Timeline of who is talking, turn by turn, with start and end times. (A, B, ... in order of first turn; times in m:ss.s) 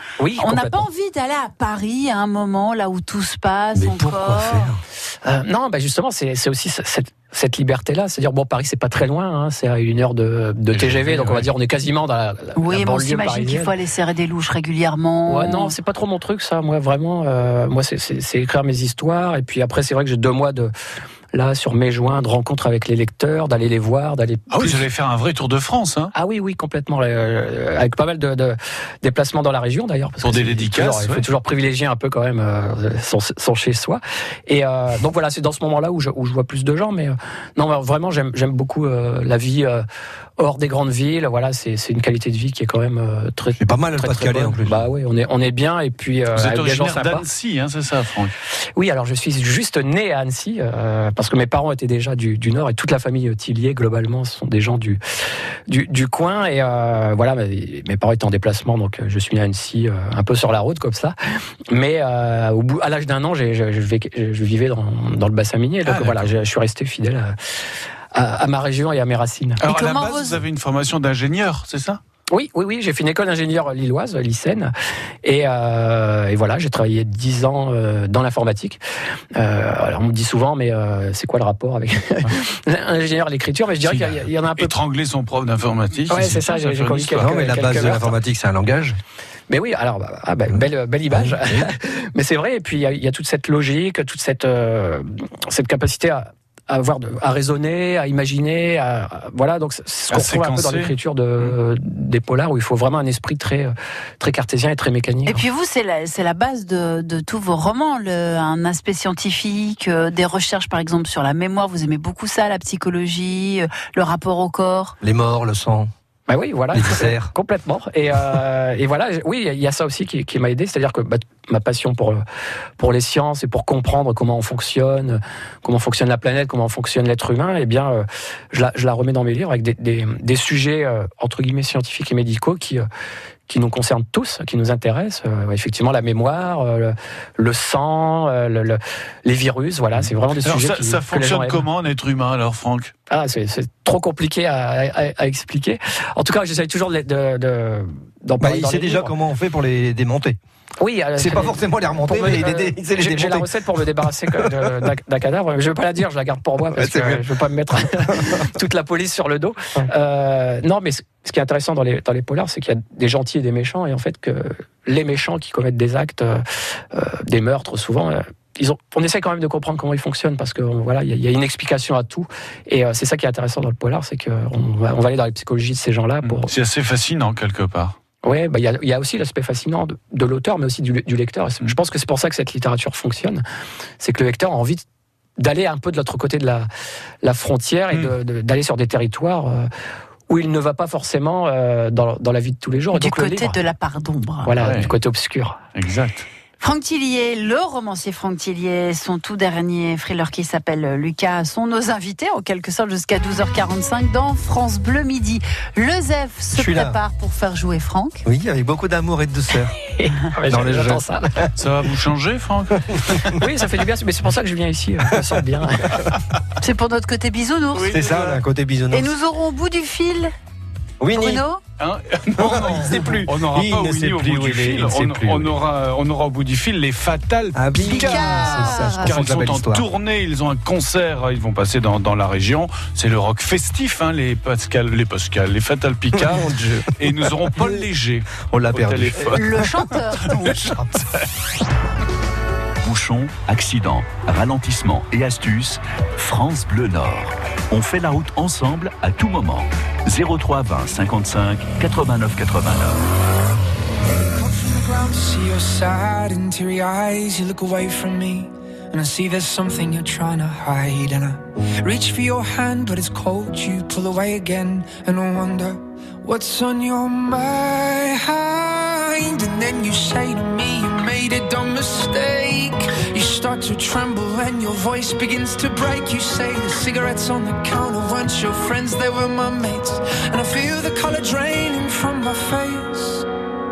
0:00.2-0:00.9 A
0:00.4-0:04.7 B
0:03.8-0:04.8 C
0:05.2-0:13.7 A
0:10.7-0:11.5 D
0:12.6-0:15.8 B
0:15.3-0:20.7 A
0:21.3-0:24.8 A
0:24.5-0:26.1 D
0:26.1-0:39.8 A
0:30.2-0:31.2 D
0:40.4-0:47.2 A
0:43.6-0:44.8 C
0:46.4-0:48.3 D
0:48.8-0:55.0 A
0:55.7-1:01.2 A
1:01.7-1:07.4 A
1:05.9-1:06.3 D
1:08.1-1:09.6 A
1:09.6-1:12.0 D
1:09.6-1:10.4 B
1:12.3-1:14.7 A
1:15.2-1:18.8 A
1:19.4-1:24.8 A
1:23.8-1:27.6 D
1:26.1-1:28.1 A
1:27.2-1:29.0 C
1:29.5-1:45.4 A
1:30.5-1:31.7 C
1:40.1-1:41.6 D
1:45.3-1:55.0 B
1:55.0-1:55.9 C
1:56.3-2:02.2 A
1:56.8-1:57.3 C
2:02.8-2:12.9 A
2:13.5-2:21.6 A
2:20.0-2:22.9 D
2:23.1-2:29.1 A
2:28.4-2:30.4 C
2:30.8-2:56.5 A
2:31.2-2:33.5 C
2:36.8-2:37.2 C
2:56.2-2:58.0 D
2:58.2-3:03.4 A
3:04.0-3:04.8 A
3:05.4-3:06.7 A
3:07.2-3:09.7 A
3:10.3-3:13.6 A
3:12.9-3:14.5 B
3:14.4-3:15.6 A
3:14.6-3:14.9 D
3:15.8-3:16.3 D
3:16.6-3:28.2 B
3:26.5-3:27.0 C
3:28.2-3:29.7 C
3:29.8-3:31.3 A
3:30.5-3:31.5 C
3:31.6-3:33.3 D
3:33.3-3:36.0 A
3:36.6-3:38.1 B
3:37.8-3:38.4 D
3:37.9-3:39.2 C
3:38.9-3:40.3 B
3:41.0-3:41.4 C
3:41.1-3:41.6 B
3:41.8-4:00.8 D
3:42.4-3:45.6 C
3:47.6-3:49.9 C
3:47.8-3:49.2 B
3:56.2-3:56.9 C
3:58.5-3:59.4 C
3:59.2-4:00.6 B
4:02.8-4:13.1 E
4:14.0-4:43.3 F